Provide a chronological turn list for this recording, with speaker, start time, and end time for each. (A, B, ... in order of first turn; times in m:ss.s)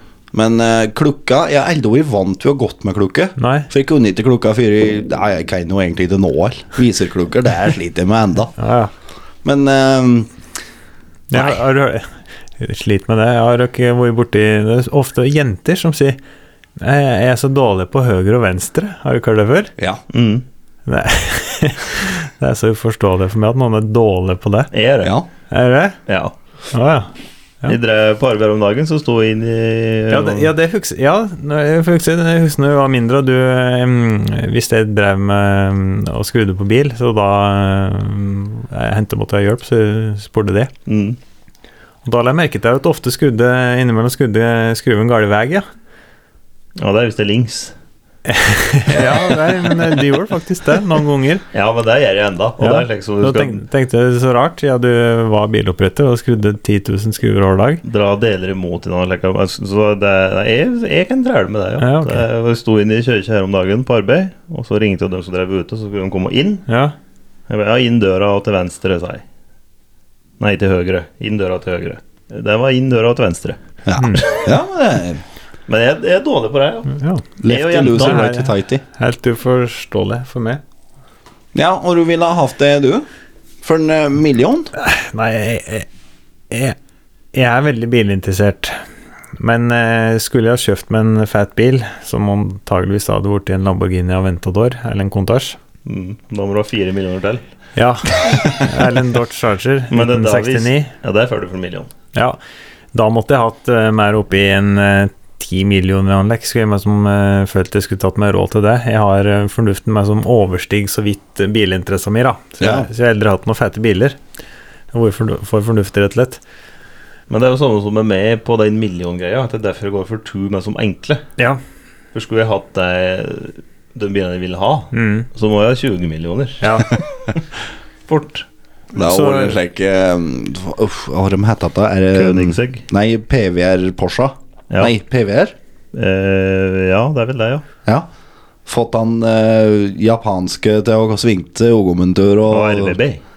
0:00.3-0:08.5 A
0:03.4-0:03.7 B
0:08.6-0:08.9 B
0:09.4-0:10.3 A
0:11.3-0:12.0 B
0:11.3-0:11.6 A
0:12.6-0:16.2 B
0:16.8-0:19.7 B
0:20.1-0:20.4 C
0:20.8-0:24.7 B
0:24.7-0:25.1 C
0:25.5-0:26.0 B
0:26.1-0:26.3 C
0:26.7-0:27.1 B
0:27.7-0:30.5 C
0:30.1-0:40.7 B
0:40.8-0:41.2 C
0:42.0-0:45.6 B
0:46.8-0:47.7 C
0:48.3-0:51.4 B
0:51.5-0:53.6 C
0:52.6-0:57.8 B
0:57.8-1:06.7 C
1:01.8-1:02.2 B
1:06.7-1:06.9 B
1:07.5-1:09.2 C
1:10.4-1:13.6 C
1:13.8-1:15.2 A
1:14.0-1:14.2 B
1:15.7-1:16.9 C
1:16.9-1:17.2 B
1:17.4-1:18.8 A
1:17.4-1:18.3 C
1:18.0-1:20.6 B
1:21.5-1:23.0 A
1:23.6-1:24.7 A
1:24.8-1:25.9 B
1:26.5-1:26.8 B
1:27.3-1:28.8 B
1:29.4-1:35.6 B
1:35.8-1:37.4 C
1:37.8-1:40.9 B
1:39.9-1:41.9 C
1:42.9-1:54.2 B
1:52.6-1:52.9 A
1:54.9-1:56.4 B
1:57.3-2:01.3 C
2:02.1-2:07.1 C
2:04.9-2:05.3 B
2:06.6-2:07.0 B
2:08.1-2:08.4 C
2:08.9-2:09.6 B
2:08.9-2:15.5 A
2:12.1-2:12.8 C
2:15.9-2:17.6 C
2:18.6-2:23.0 A
2:22.5-2:23.2 C